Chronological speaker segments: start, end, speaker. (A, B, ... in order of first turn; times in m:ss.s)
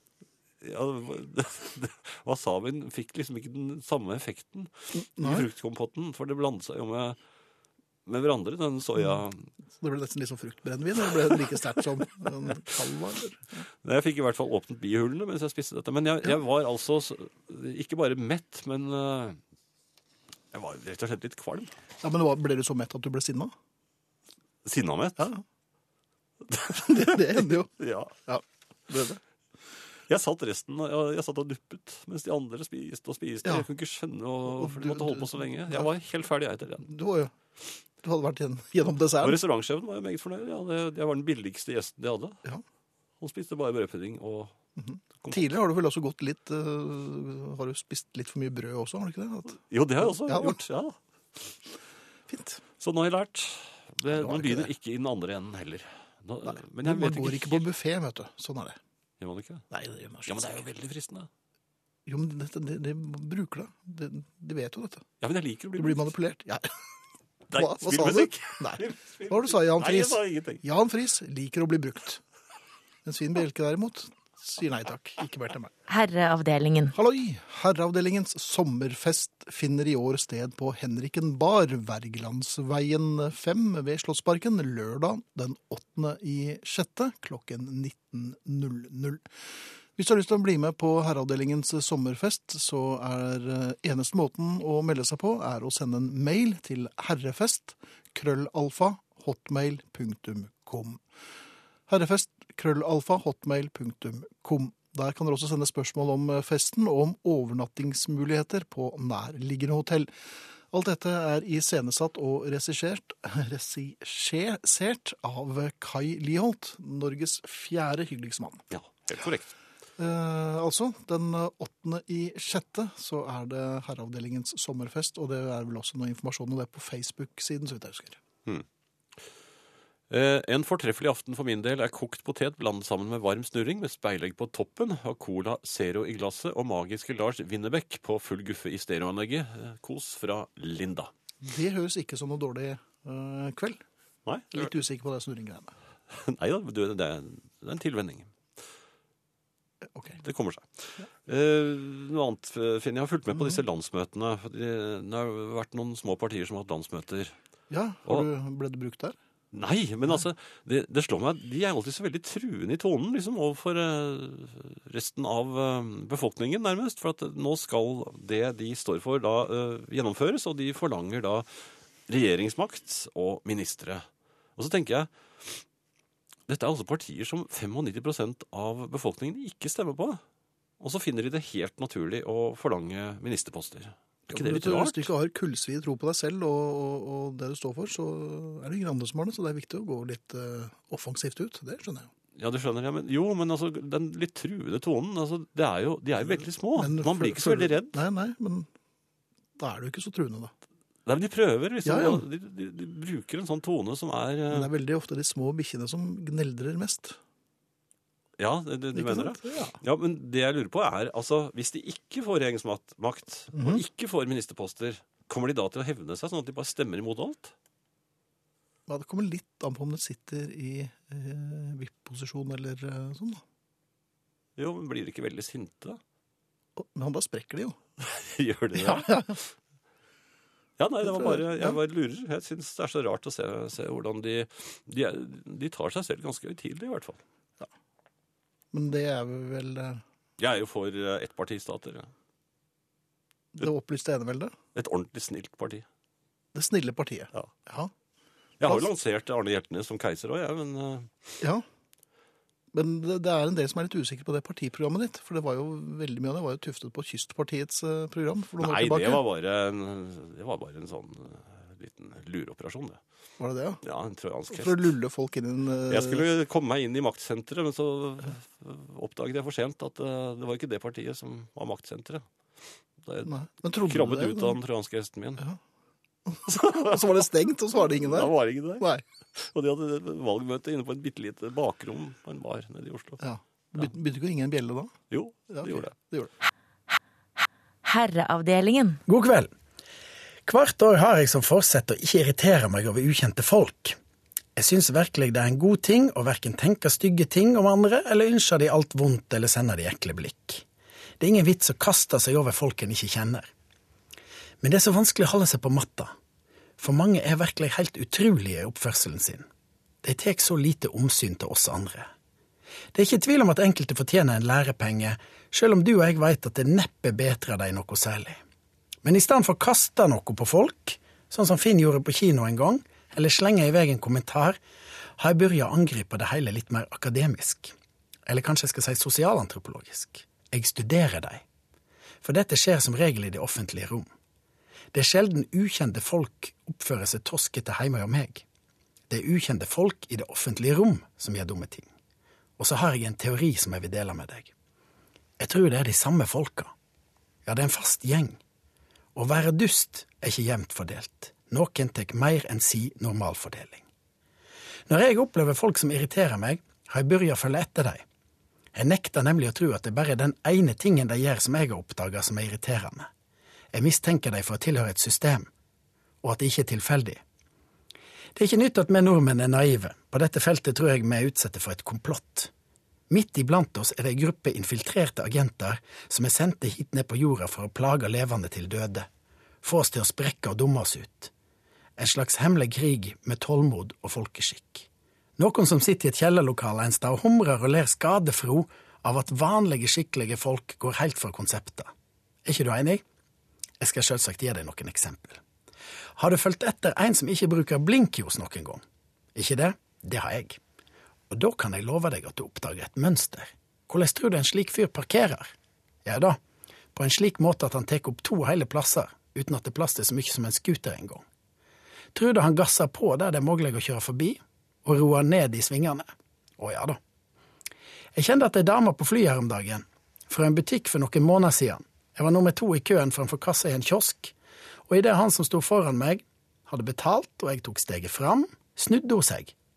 0:00.6-0:07.2 A
0:04.9-0:05.5 B
0:08.1-0:09.5 A
0:09.7-0:13.6 B
0:13.8-0:19.4 A
0:20.5-0:21.7 A
0:22.0-0:23.5 B
0:24.6-0:25.3 A
0:25.2-0:25.4 B
0:26.5-0:28.2 A
0:26.6-0:27.7 B
0:28.3-0:29.2 B
0:30.1-0:36.9 A
0:34.5-0:35.8 B
0:36.8-0:37.3 B
0:38.0-0:39.4 B
0:39.2-0:42.4 A
0:43.2-0:44.6 A
0:44.8-0:50.6 B
0:45.2-0:45.5 A
0:49.7-0:51.0 A
0:52.3-0:52.6 B
0:52.8-0:57.7 A
0:54.1-0:54.7 B
0:56.5-0:58.8 B
0:59.2-0:59.6 A
0:59.7-1:00.6 B
1:00.3-1:01.3 A
1:02.1-1:05.0 B
1:05.2-1:06.1 A
1:05.8-1:06.8 B
1:07.5-1:10.6 A
1:07.5-1:12.2 B
1:13.0-1:15.7 B
1:15.9-1:17.0 C
1:16.9-1:29.2 B
1:30.0-1:41.0 B
1:41.9-1:50.1 B
1:50.7-1:58.6 B
1:58.7-1:59.5 A
2:00.0-2:08.2 B
2:10.1-2:21.1 A
2:21.4-2:23.8 B
2:24.3-2:24.7 A
2:24.5-2:25.7 B
2:26.1-2:28.3 A
2:29.9-2:30.2 B
2:30.2-2:37.3 A
2:37.7-2:39.2 B
2:39.5-2:51.5 A
2:52.1-2:54.0 A
2:54.6-2:55.6 A
2:56.5-3:00.2 A
3:00.8-3:05.1 A
3:04.3-3:12.1 B
3:12.4-3:18.0 A
3:16.8-3:18.7 B
3:19.6-3:20.5 B
3:21.1-3:24.7 A
3:21.8-3:22.2 B
3:24.5-3:27.2 B
3:28.4-3:37.5 A
3:29.0-3:29.8 B
3:33.5-3:33.8 B
3:38.9-3:43.4 B
3:44.6-3:46.0 A
3:46.8-3:47.8 B
3:48.0-3:49.2 A
3:48.8-3:49.4 B
3:50.8-3:57.2 A
3:51.1-3:51.8 B
3:58.7-4:00.0 B
4:00.4-4:02.1 A
4:03.6-4:04.6 B
4:04.8-4:05.9 A
4:06.5-4:07.9 B
4:08.6-4:11.3 A
4:12.7-4:19.2 B
4:18.6-4:23.0 A
4:23.4-4:23.8 B
4:23.8-4:24.9 A
4:24.5-4:26.3 B
4:25.9-4:32.3 A
4:33.0-4:35.4 A
4:33.2-4:34.6 B
4:36.3-4:39.0 B
4:36.5-4:37.0 A
4:37.8-4:43.2 A
4:43.2-4:44.9 B
4:45.1-4:45.9 A
4:45.5-4:46.3 B
4:47.8-4:49.0 C
4:49.1-4:49.5 D
4:50.5-4:54.0 D
4:54.6-5:00.6 D
5:01.2-5:03.5 D
5:04.6-5:06.1 D
5:06.8-5:09.5 D
5:10.0-5:12.1 D
5:12.9-5:18.4 D
5:19.0-5:24.6 D
5:25.2-5:27.7 D
5:28.3-5:31.4 D
5:32.2-5:34.1 D
5:34.9-5:38.4 D
5:39.1-5:41.9 D
5:42.6-5:44.5 D
5:45.4-5:46.7 D
5:47.4-5:48.4 D
5:49.2-5:53.8 D
5:54.9-5:58.0 D
5:58.7-6:03.1 D
6:03.7-6:05.5 D
6:06.2-6:07.2 D
6:08.4-6:12.5 D
6:13.1-6:19.1 D
6:19.6-6:21.3 D
6:22.0-6:31.9 D
6:32.4-6:33.0 D
6:33.8-6:35.4 D
6:36.2-6:38.8 D
6:39.4-6:40.6 D
6:41.3-6:45.5 D
6:46.0-6:46.4 D
6:46.9-6:51.2 D
6:52.1-6:56.1 D
6:56.6-6:57.0 D
6:58.1-7:04.3 D
7:04.9-7:09.5 D